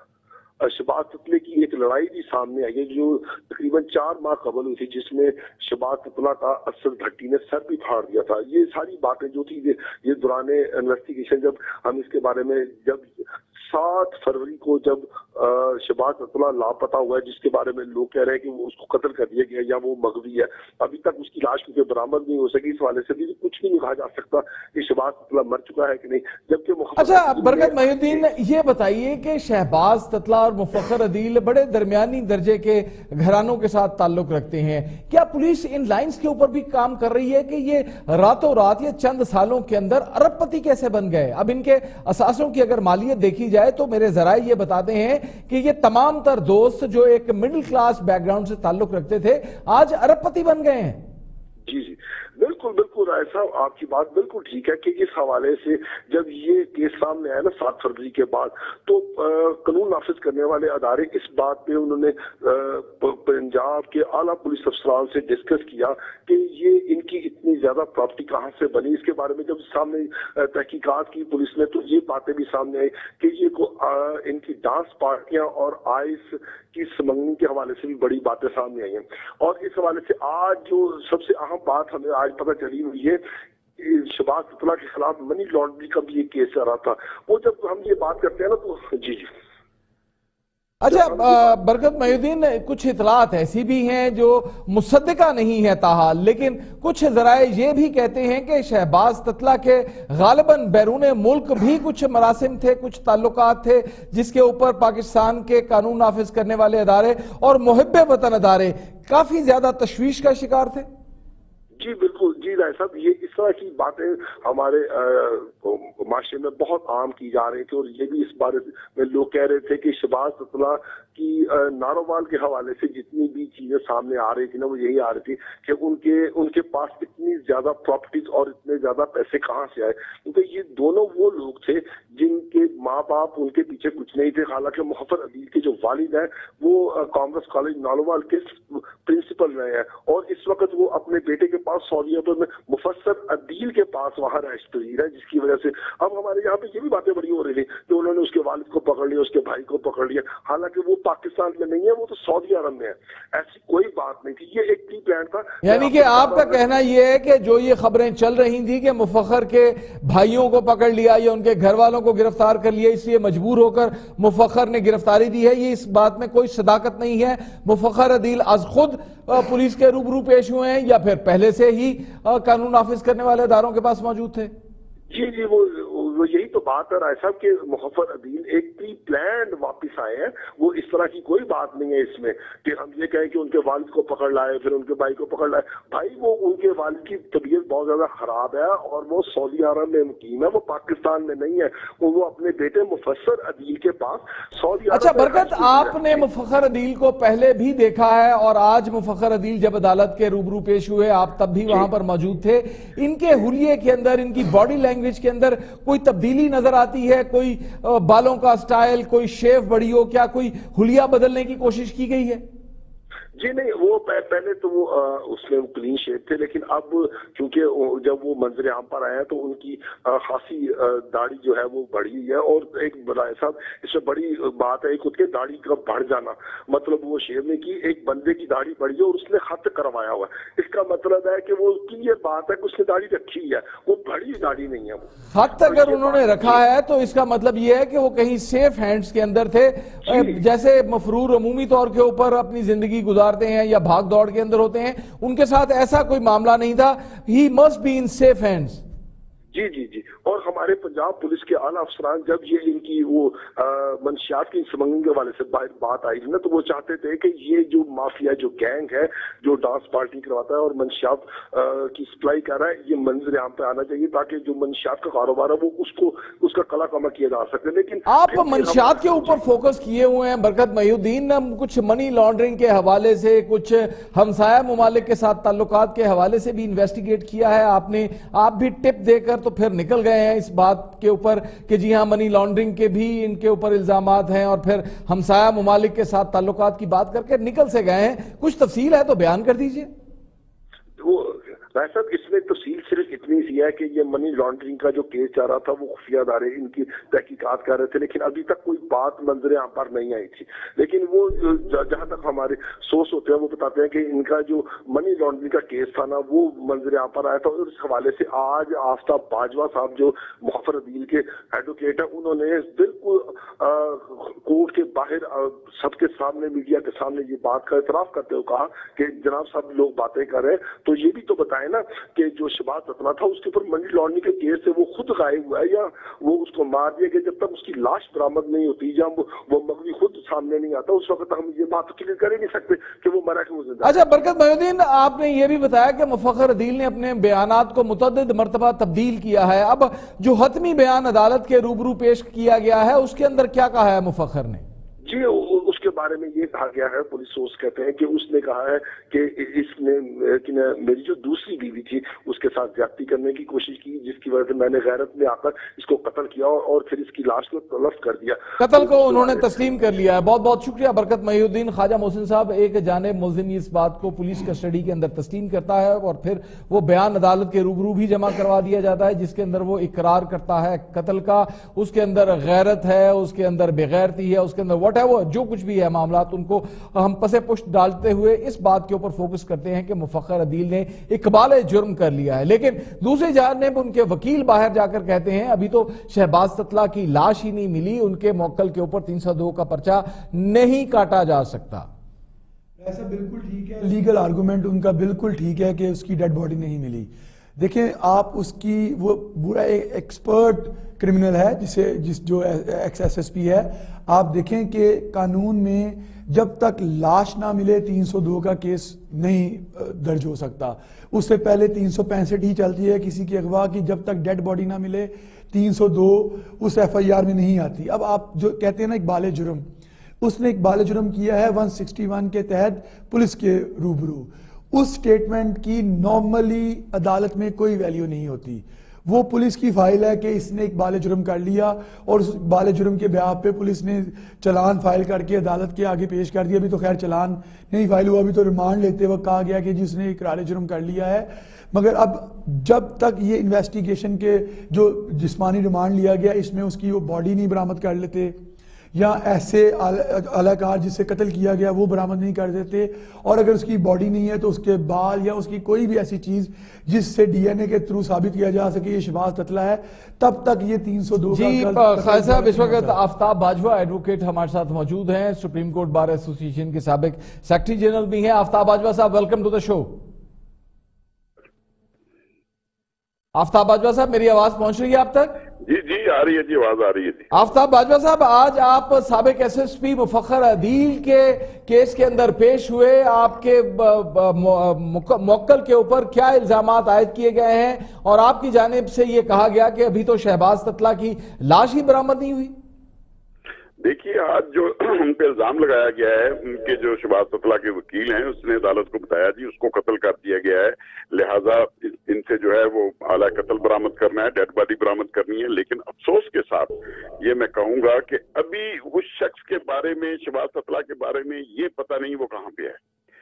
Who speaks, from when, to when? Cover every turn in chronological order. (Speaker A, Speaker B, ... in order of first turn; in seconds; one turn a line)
Speaker A: 0.6-28.2
Speaker B: 27.0-51.0
Speaker A: 51.6-83.2
Speaker A: 83.8-89.3
Speaker B: 90.8-110.9
Speaker A: 90.9-91.6
Speaker A: 111.8-156.7
Speaker B: 155.6-174.5
Speaker A: 175.1-196.2
Speaker B: 194.9-212.4
Speaker A: 213.4-236.6
Speaker B: 235.3-248.8
Speaker A: 240.1-240.4
Speaker A: 249.5-269.4
Speaker B: 268.1-289.9
Speaker A: 291.0-334.1
Speaker B: 333.8-344.6
Speaker A: 345.0-359.4
Speaker B: 358.6-391.9
Speaker C: 392.8-419.7
Speaker C: 420.2-448.4
Speaker C: 448.9-463.0
Speaker B: 461.3-470.0
Speaker B: 473.3-475.4
Speaker D: 475.6-477.3
Speaker B: 477.3-492.5
Speaker D: 493.8-512.8